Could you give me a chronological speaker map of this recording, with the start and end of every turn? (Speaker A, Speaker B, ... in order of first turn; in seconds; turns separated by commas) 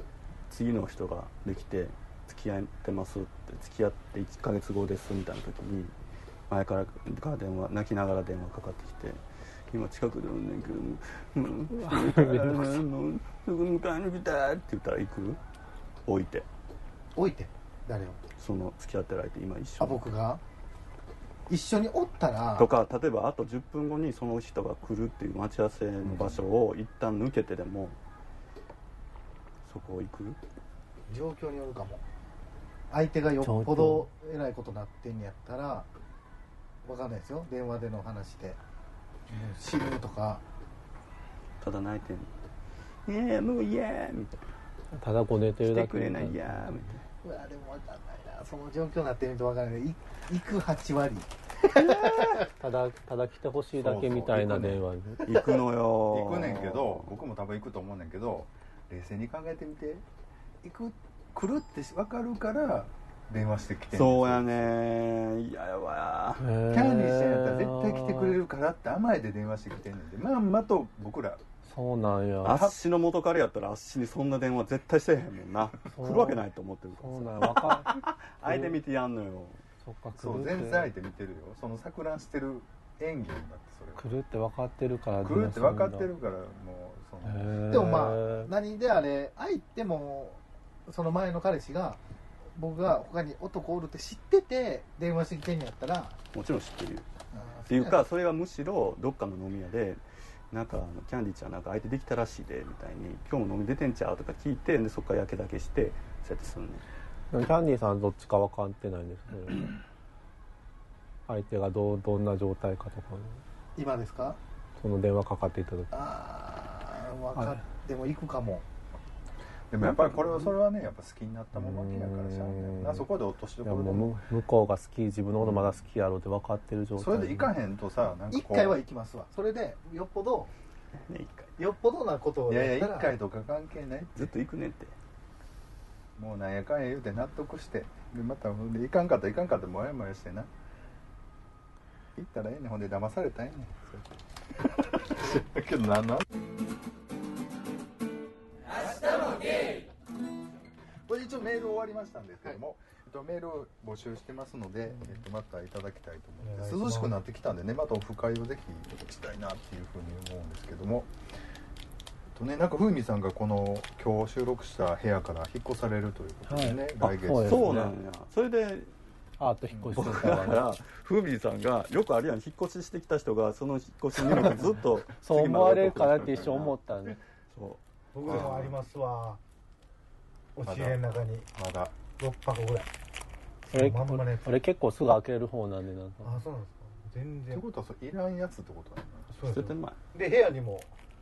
Speaker A: 0.5-5.9, Speaker A: 6.5-15.4, Speaker B: 11.7-12.8, Speaker A: 16.1-16.5, Speaker C: 17.1-18.2, Speaker A: 18.4-20.0, Speaker C: 19.8-20.4, Speaker C: 21.5-22.7, Speaker A: 22.6-28.0, Speaker D: 26.1-26.4, Speaker A: 29.6-30.4, Speaker C: 31.1-32.0, Speaker C: 32.9-35.9, Speaker B: 33.4-34.1, Speaker C: 36.8-38.6, Speaker C: 39.3-40.4, Speaker A: 41.6-42.3, Speaker A: 43.1-44.5, Speaker B: 44.9-46.9, Speaker A: 45.6-47.0, Speaker C: 47.2-52.5, Speaker A: 51.7-52.5, Speaker B: 52.5-55.2, Speaker D: 53.8-54.8, Speaker A: 55.2-57.1, Speaker C: 55.2-55.6, Speaker D: 56.1-60.0, Speaker D: 60.6-64.5, Speaker A: 63.9-66.5, Speaker B: 66.4-68.4, Speaker D: 66.7-71.4, Speaker B: 71.7-72.7, Speaker A: 72.4-79.6, Speaker B: 75.9-76.4, Speaker B: 77.0-78.8, Speaker B: 79.8-80.9, Speaker D: 80.2-84.1, Speaker B: 84.0-86.1, Speaker D: 85.2-87.7, Speaker B: 87.2-88.5, Speaker C: 87.7-92.0, Speaker C: 92.5-96.2, Speaker A: 96.3-97.1, Speaker C: 97.3-98.0, Speaker A: 97.7-106.8, Speaker B: 107.3-109.8, Speaker B: 111.3-113.4, Speaker C: 113.8-114.4, Speaker B: 114.8-115.9, Speaker C: 115.9-118.7, Speaker B: 117.3-117.6, Speaker D: 119.7-124.2, Speaker A: 119.8-120.5, Speaker B: 121.5-123.1, Speaker B: 123.6-127.5, Speaker D: 127.0-128.8, Speaker C: 128.3-130.5, Speaker A: 130.9-131.5, Speaker C: 131.6-133.1, Speaker D: 132.5-134.3, Speaker A: 134.2-134.9, Speaker D: 136.2-140.5, Speaker D: 142.2-144.1, Speaker D: 145.0-146.2, Speaker D: 151.1-161.1, Speaker C: 156.4-157.2, Speaker D: 162.3-167.9, Speaker B: 166.5-167.9, Speaker A: 167.4-168.9, Speaker B: 169.4-170.8, Speaker D: 169.7-170.2, Speaker A: 169.9-178.7, Speaker B: 175.1-177.2, Speaker C: 178.1-179.4, Speaker D: 178.3-178.7, Speaker C: 180.6-181.5, Speaker D: 180.6-181.0, Speaker D: 181.5-181.9, Speaker C: 182.2-182.9, Speaker C: 183.7-184.5, Speaker B: 183.7-186.4, Speaker C: 186.2-187.6, Speaker D: 187.5-189.3, Speaker C: 189.3-190.9, Speaker A: 189.4-190.0